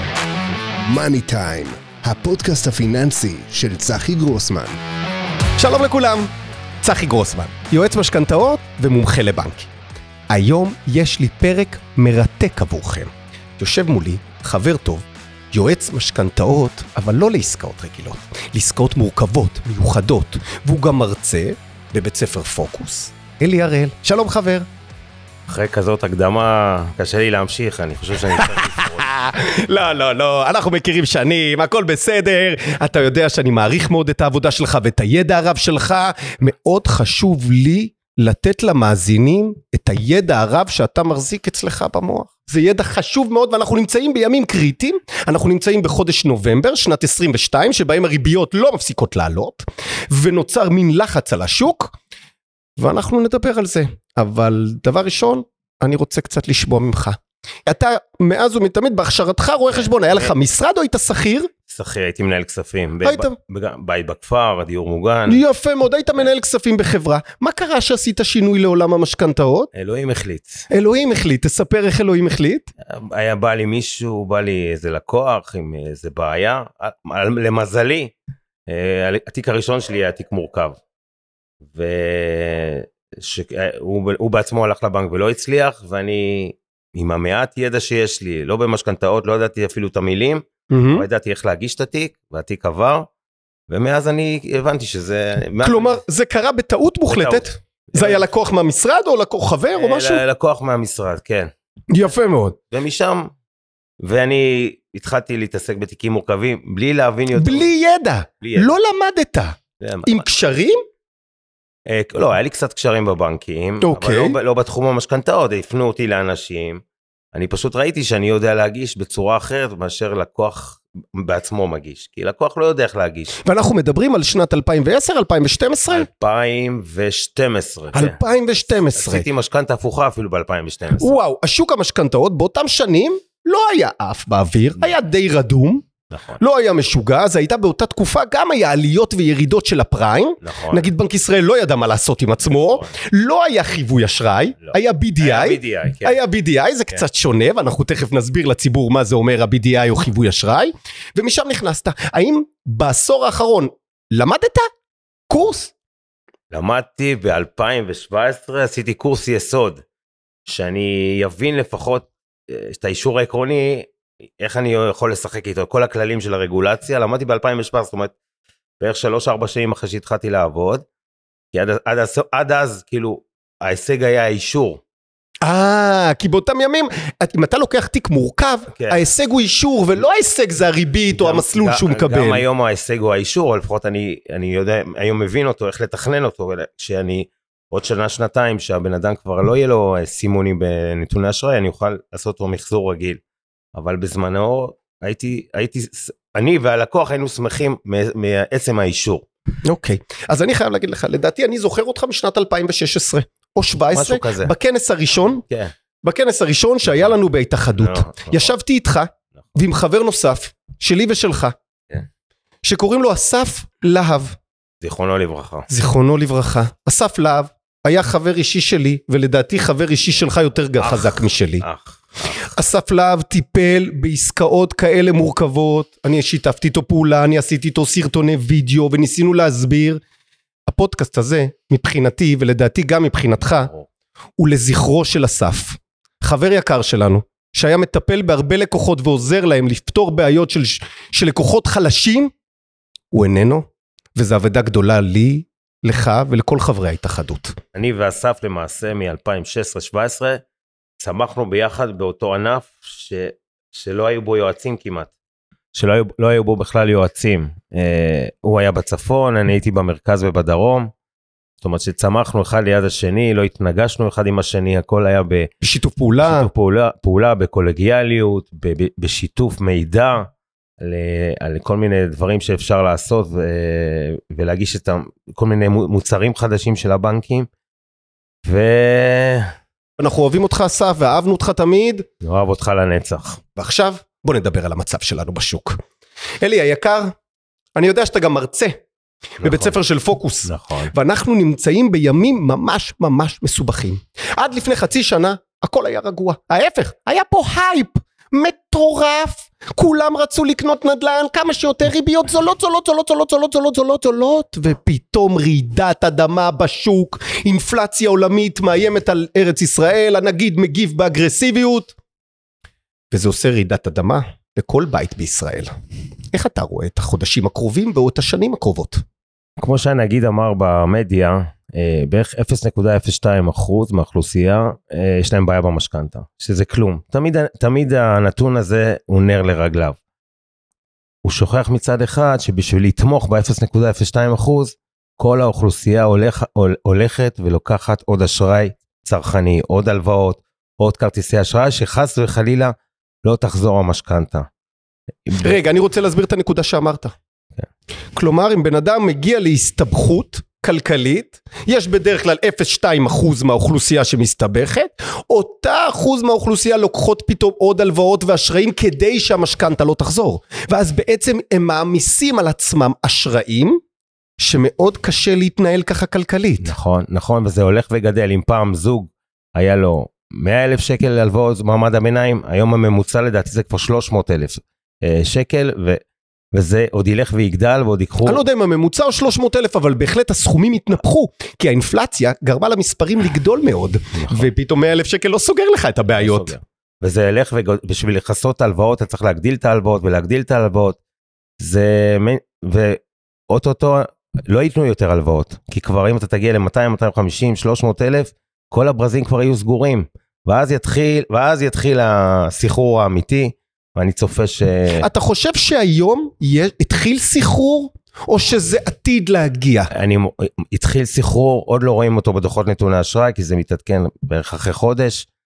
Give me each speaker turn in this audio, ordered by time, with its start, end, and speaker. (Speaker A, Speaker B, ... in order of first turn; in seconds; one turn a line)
Speaker A: 0.8-4.8
Speaker B: 5.6-6.3
Speaker B: 6.8-9.7
Speaker B: 10.3-24.7
Speaker C: 25.5-29.1
Speaker B: 28.4-52.0
Speaker B: 52.8-61.5
Speaker C: 59.7-60.3
Speaker C: 61.7-65.4
Speaker B: 63.0-63.4
Speaker B: 65.3-69.7
Speaker C: 69.7-70.7
Speaker B: 70.7-72.7
Speaker C: 72.8-78.2
Speaker C: 78.7-80.8
Speaker C: 81.7-93.1
Speaker B: 90.7-91.1
Speaker C: 93.7-96.0
Speaker B: 95.6-100.2
Speaker C: 97.1-98.3
Speaker C: 99.7-101.5
Speaker B: 101.9-102.6
Speaker C: 102.7-103.3
Speaker C: 104.0-107.7
Speaker B: 107.4-110.8
Speaker C: 108.4-108.7
Speaker C: 109.8-110.3
Speaker C: 111.9-116.8
Speaker B: 113.8-114.4
Speaker C: 117.3-123.4
Speaker B: 123.4-126.1
Speaker C: 125.9-128.2
Speaker B: 127.9-129.3
Speaker C: 128.9-131.1
Speaker B: 131.0-135.9
Speaker C: 136.1-136.4
Speaker B: 136.4-154.7
Speaker C: 140.4-140.9
Speaker C: 142.6-142.9
Speaker C: 144.6-146.2
Speaker B: 155.3-155.7
Speaker C: 156.5-159.8
Speaker C: 160.5-168.1
Speaker C: 168.8-170.9
Speaker C: 171.5-174.8
Speaker B: 175.4-182.4
Speaker C: 178.8-179.0
Speaker C: 181.1-193.2
Speaker C: 193.7-199.3
Speaker B: 199.7-205.4
Speaker C: 203.9-204.5
Speaker B: 206.0-211.5
Speaker C: 206.9-207.2
Speaker C: 207.8-208.5
Speaker B: 212.6-214.4
Speaker C: 214.8-215.7
Speaker B: 215.7-221.7
Speaker C: 220.8-222.3
Speaker B: 222.4-230.0
Speaker B: 230.7-233.7
Speaker B: 234.4-242.3
Speaker B: 243.1-247.6
Speaker C: 247.7-250.4
Speaker C: 251.0-255.1
Speaker C: 255.7-260.9
Speaker C: 261.6-265.5
Speaker B: 265.6-266.5
Speaker C: 266.2-277.5
Speaker C: 278.4-279.5
Speaker B: 280.0-282.1
Speaker C: 282.2-283.4
Speaker B: 283.6-285.8
Speaker B: 286.4-287.1
Speaker B: 287.8-288.8
Speaker B: 289.4-311.9
Speaker C: 289.4-289.7
Speaker C: 290.4-290.9
Speaker B: 313.1-315.7
Speaker B: 316.3-319.0
Speaker C: 319.6-330.0
Speaker C: 331.2-344.5
Speaker C: 345.3-345.6
Speaker B: 345.4-347.1
Speaker B: 348.1-363.8
Speaker B: 364.4-366.7
Speaker C: 366.6-376.0
Speaker C: 376.5-378.4
Speaker B: 378.3-386.5
Speaker C: 384.2-384.5
Speaker C: 386.1-391.0
Speaker C: 391.6-405.1
Speaker B: 405.0-409.9
Speaker C: 409.9-415.3